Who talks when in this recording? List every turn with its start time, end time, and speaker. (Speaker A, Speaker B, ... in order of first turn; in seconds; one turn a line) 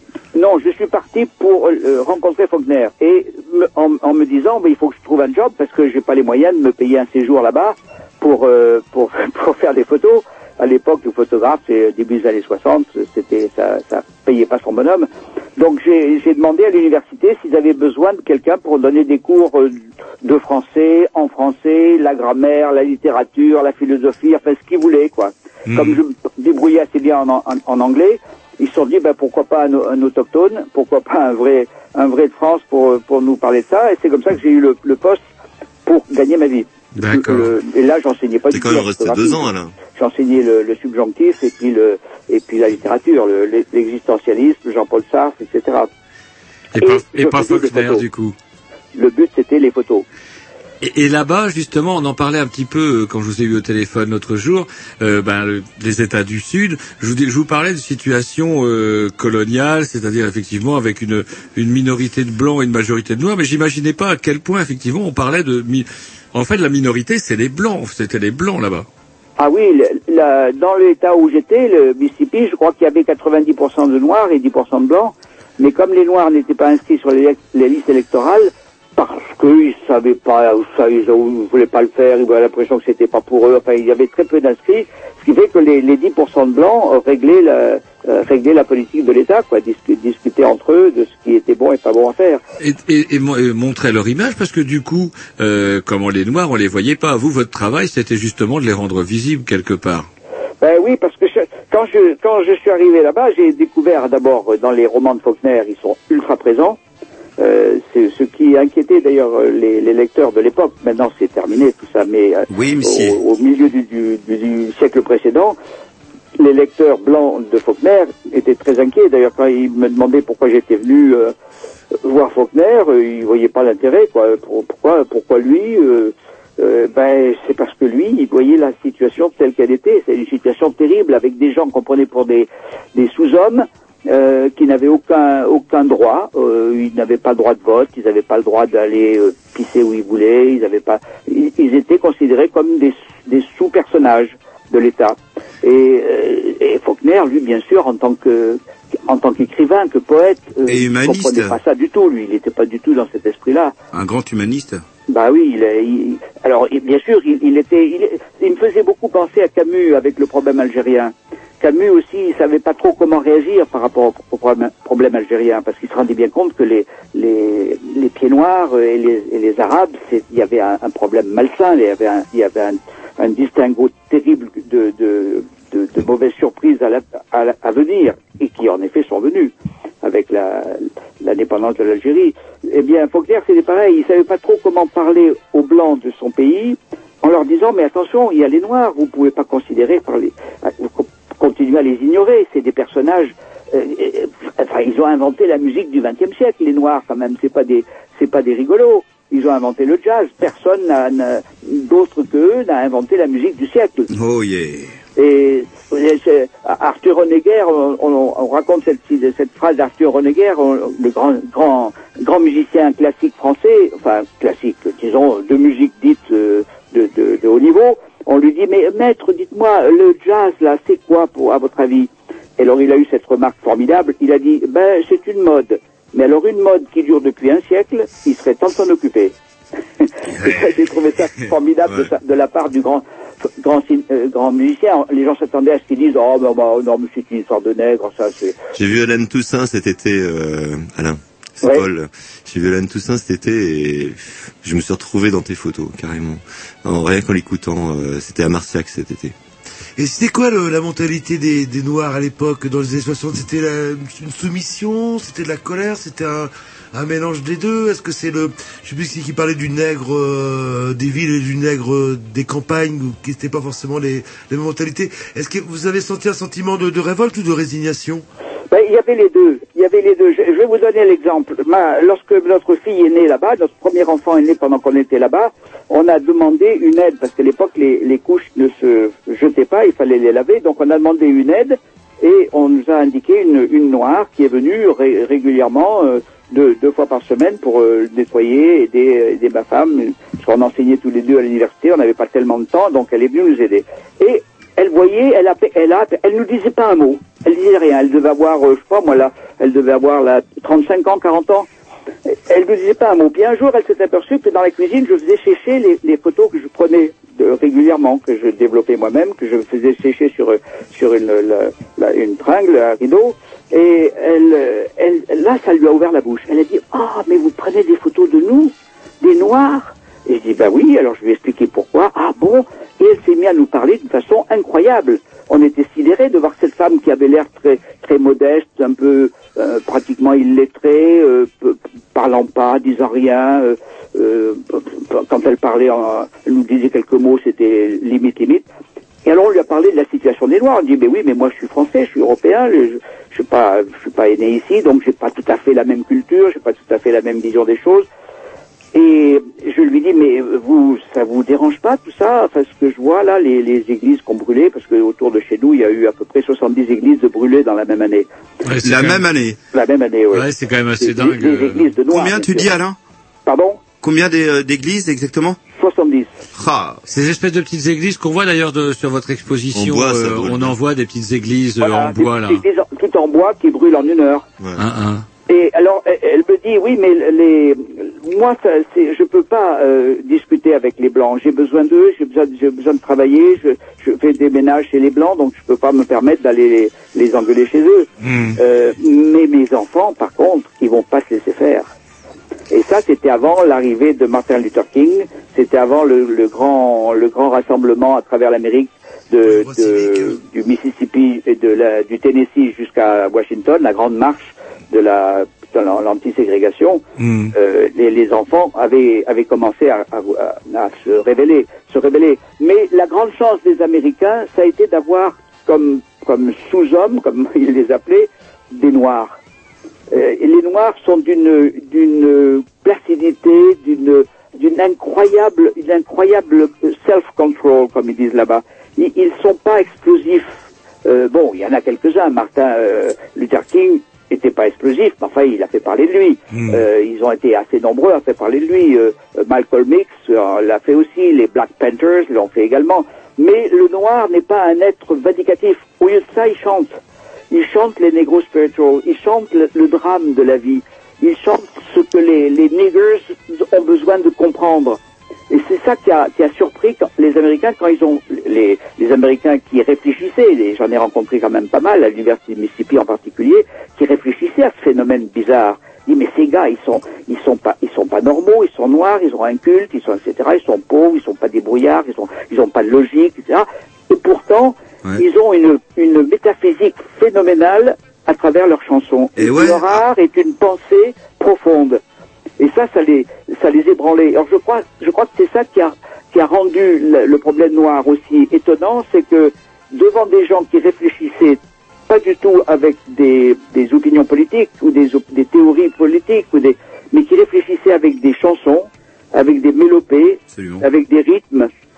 Speaker A: 0.3-35.2
Speaker B: 25.7-26.0
Speaker A: 35.9-45.9
Speaker B: 37.0-37.5
Speaker C: 38.5-39.8
Speaker B: 46.7-48.3
Speaker A: 46.8-48.0
Speaker A: 48.9-50.0
Speaker B: 50.8-68.9
Speaker A: 69.4-92.4
Speaker B: 92.6-100.1
Speaker A: 100.6-106.8
Speaker A: 107.4-115.5
Speaker D: 112.5-113.2
Speaker A: 116.4-121.3
Speaker A: 122.0-153.7
Speaker D: 150.7-151.6
Speaker D: 153.9-154.8
Speaker A: 155.1-179.5
Speaker A: 180.0-204.1
Speaker D: 204.1-204.9
Speaker A: 205.2-229.3
Speaker A: 230.4-233.0
Speaker A: 233.6-238.5
Speaker C: 238.7-249.3
Speaker E: 250.0-268.2
Speaker A: 268.7-301.7
Speaker A: 302.5-338.6
Speaker A: 339.2-348.1
Speaker A: 348.9-358.3
Speaker B: 358.6-359.2
Speaker D: 358.8-359.6
Speaker A: 359.7-360.5
Speaker B: 360.3-361.9
Speaker A: 361.0-362.7
Speaker D: 362.1-363.0
Speaker A: 363.4-363.8
Speaker D: 364.0-365.6
Speaker A: 365.7-366.3
Speaker D: 366.5-367.0
Speaker B: 367.1-372.6
Speaker C: 369.7-370.7
Speaker A: 371.8-374.4
Speaker B: 374.8-375.2
Speaker A: 375.5-391.9
Speaker B: 388.2-388.6
Speaker A: 392.7-407.0
Speaker E: 399.4-400.4
Speaker B: 407.2-407.5
Speaker A: 407.5-419.4
Speaker A: 420.1-446.9
Speaker B: 436.5-436.8
Speaker A: 447.5-455.0
Speaker A: 455.5-482.0
Speaker D: 479.4-480.0
Speaker A: 482.6-501.7
Speaker D: 500.5-500.8